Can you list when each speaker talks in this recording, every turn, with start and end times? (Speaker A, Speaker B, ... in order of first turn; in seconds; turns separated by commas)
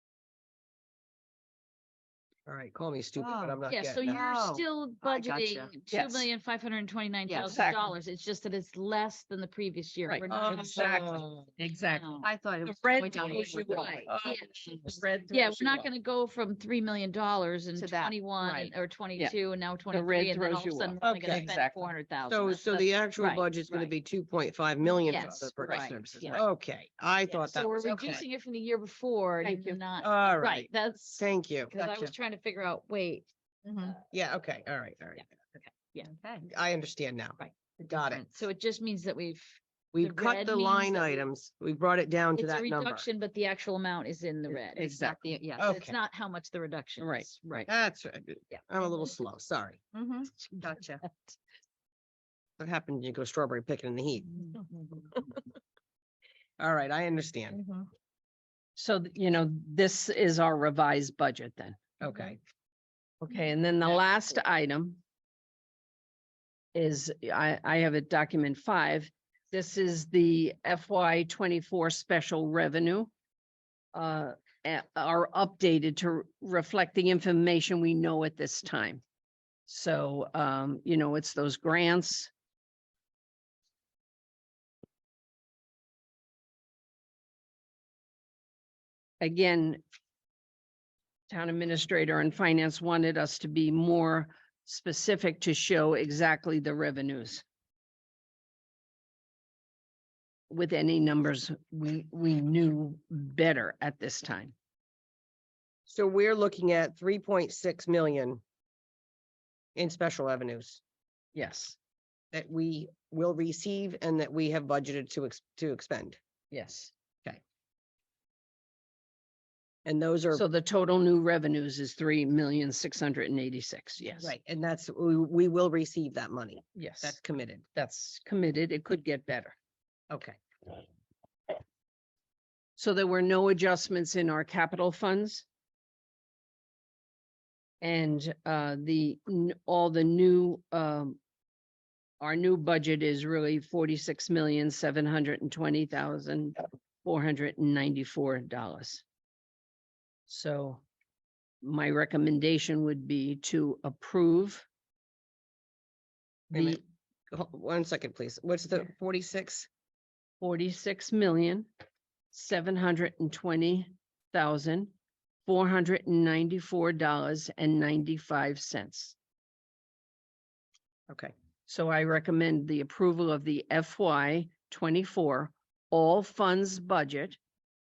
Speaker A: 2.5-4.6, Speaker B: 3.2-5.7, Speaker C: 3.7-10.9, Speaker D: 5.9-6.3, Speaker B: 7.3-7.6, Speaker D: 7.4-7.9, Speaker D: 10.1-15.9, Speaker A: 10.3-11.2, Speaker B: 10.3-11.4, Speaker C: 11.8-12.3, Speaker B: 12.2-15.5, Speaker C: 13.2-14.7, Speaker A: 14.1-14.4, Speaker C: 15.3-23.9, Speaker B: 17.7-18.7, Speaker D: 19.9-21.9, Speaker A: 21.0-21.5, Speaker A: 22.2-28.2, Speaker C: 25.0-25.9, Speaker B: 25.6-26.4, Speaker C: 27.5-33.3, Speaker B: 27.8-28.2, Speaker D: 29.4-29.8, Speaker A: 30.0-31.7, Speaker B: 31.7-32.1, Speaker B: 33.6-34.0, Speaker A: 34.1-35.2, Speaker C: 35.2-36.1, Speaker B: 36.0-36.5, Speaker A: 36.5-38.2, Speaker B: 37.7-38.3, Speaker C: 38.3-41.3, Speaker A: 39.9-43.1, Speaker C: 42.3-47.7, Speaker D: 44.5-45.2, Speaker B: 45.1-45.9, Speaker A: 45.6-46.0, Speaker D: 47.0-47.7, Speaker A: 47.7-49.8, Speaker B: 49.9-51.0, Speaker C: 50.5-51.4, Speaker A: 52.6-54.4, Speaker A: 56.6-57.6, Speaker B: 57.5-57.9, Speaker D: 58.8-61.8, Speaker A: 62.0-62.4, Speaker D: 63.2-65.0, Speaker D: 66.7-73.1, Speaker D: 73.9-79.0, Speaker D: 79.7-82.3, Speaker D: 89.2-89.8, Speaker D: 91.3-97.4, Speaker D: 100.5-104.5, Speaker A: 105.9-108.4, Speaker A: 109.8-110.8, Speaker D: 111.3-111.8, Speaker A: 112.3-116.2, Speaker D: 116.5-116.9, Speaker A: 119.9-120.4, Speaker D: 120.3-124.3, Speaker A: 124.2-127.6, Speaker D: 126.7-127.2, Speaker D: 127.7-129.5, Speaker A: 130.1-130.4, Speaker D: 132.8-135.4, Speaker D: 137.8-141.2, Speaker D: 142.2-149.0, Speaker D: 150.3-150.8, Speaker D: 151.6-154.7, Speaker D: 156.5-156.8, Speaker A: 156.5-156.8, Speaker A: 157.3-159.7, Speaker D: 160.4-161.7, Speaker D: 162.3-164.9, Speaker D: 165.4-169.2, Speaker D: 171.7-177.4